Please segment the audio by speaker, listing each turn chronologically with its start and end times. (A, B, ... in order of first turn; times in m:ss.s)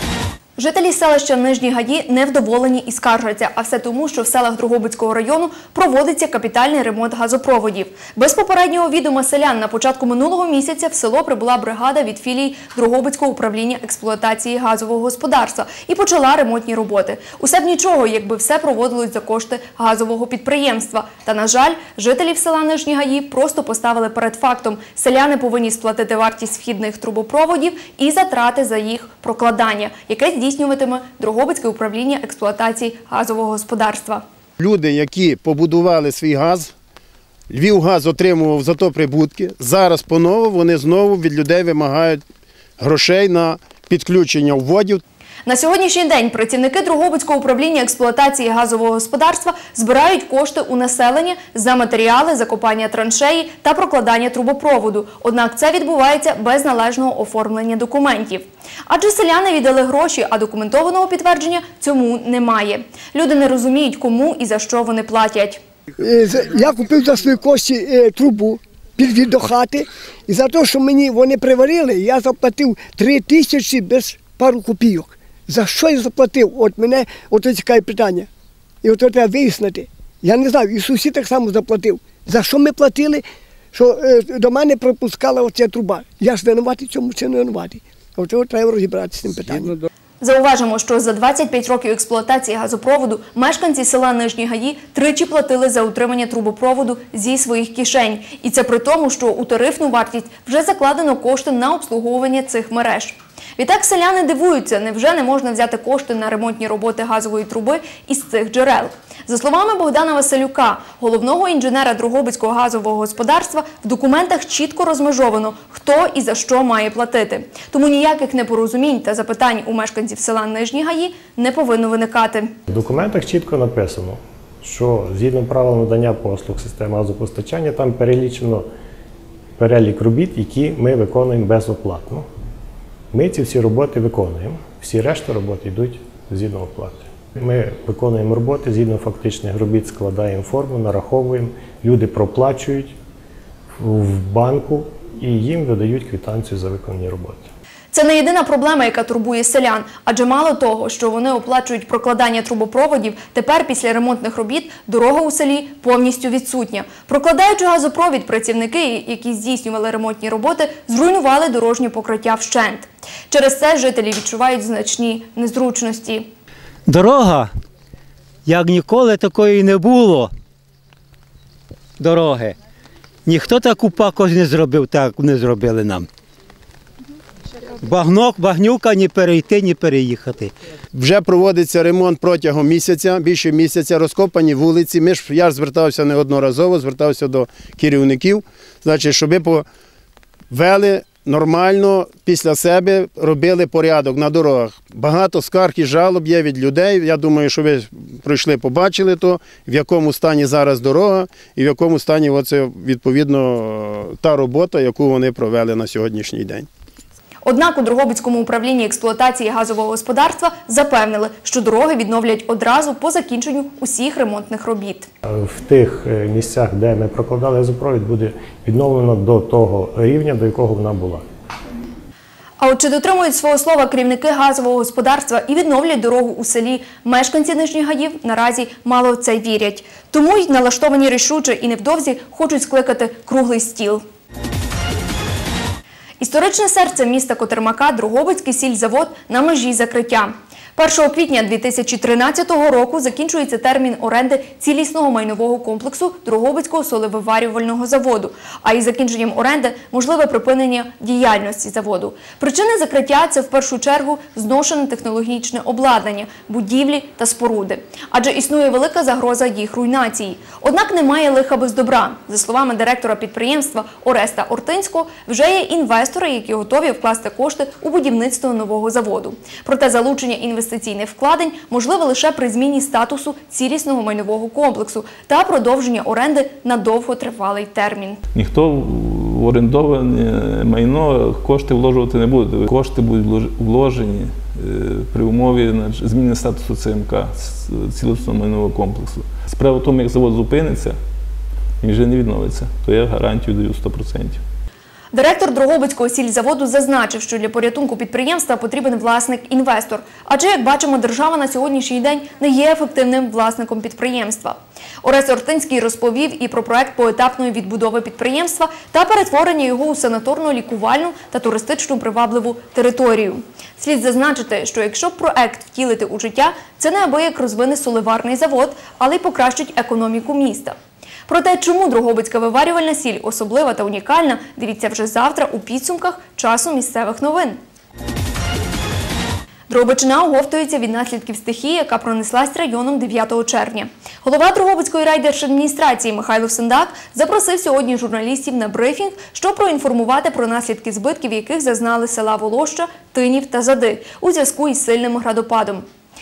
0:00.6-0:34.2 A
0:34.6-0:36.7 B
0:37.5-0:42.2 B
0:42.8-0:45.0 B
0:45.4-1:05.6 A
1:06.0-1:18.3 C
1:18.8-1:29.8 C
1:30.2-2:02.5 A
2:02.7-2:08.6 D
2:09.6-2:12.2 D
2:13.1-2:22.9 D
2:23.8-2:27.5 D
2:27.9-2:46.3 A
2:46.9-2:47.5 E
2:48.4-2:50.3 E
2:52.0-2:52.5 E
2:53.2-2:56.1 E
2:57.8-3:00.5 E
3:00.9-3:09.6 B
3:10.5-3:26.7 B
3:27.4-3:35.1 A
3:35.3-3:41.2 D
3:42.6-3:54.0 A
3:56.2-4:38.2 A
4:38.3-4:51.0 F
4:51.8-4:54.4 F
4:55.1-5:20.8 A
5:21.3-5:27.6 A
5:29.7-5:45.8 A